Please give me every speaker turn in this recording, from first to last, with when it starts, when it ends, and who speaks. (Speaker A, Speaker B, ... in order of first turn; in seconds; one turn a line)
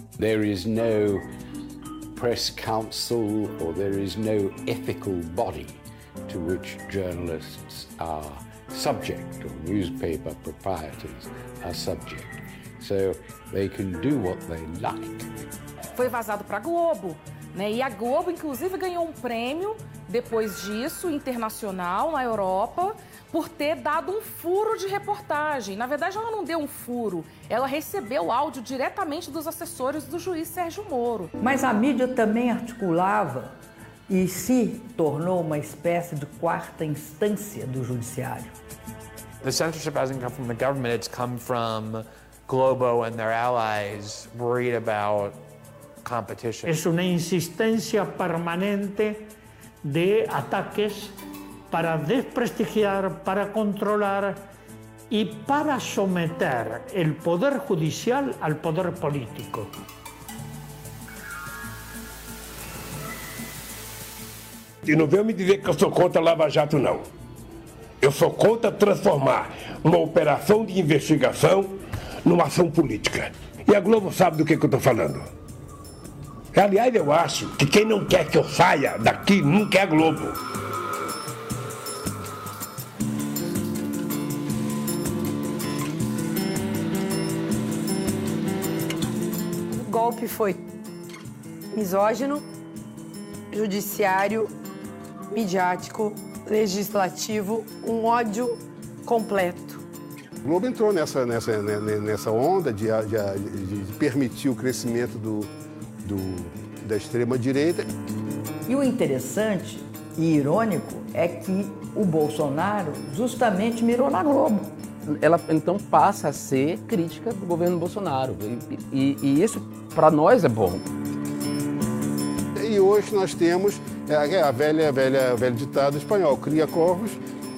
Speaker A: 0.2-1.3
Speaker A: 2.1-15.5
Speaker B: 16.0-31.3
Speaker C: 31.4-33.6
Speaker C: 34.1-38.5
Speaker D: 39.4-45.4
Speaker D: 46.0-46.7
Speaker E: 46.7-49.3
Speaker E: 49.9-51.1
Speaker E: 51.7-54.4
Speaker E: 55.1-59.7
Speaker F: 64.8-67.1
Speaker F: 68.0-75.3
Speaker F: 76.5-80.4
Speaker G: 89.7-90.7
Speaker G: 91.7-92.4
Speaker G: 93.5-94.5
Speaker G: 95.3-99.8
Speaker H: 100.4-105.5
Speaker H: 106.0-107.9
Speaker C: 108.7-114.7
Speaker I: 115.1-120.9
Speaker H: 122.6-127.2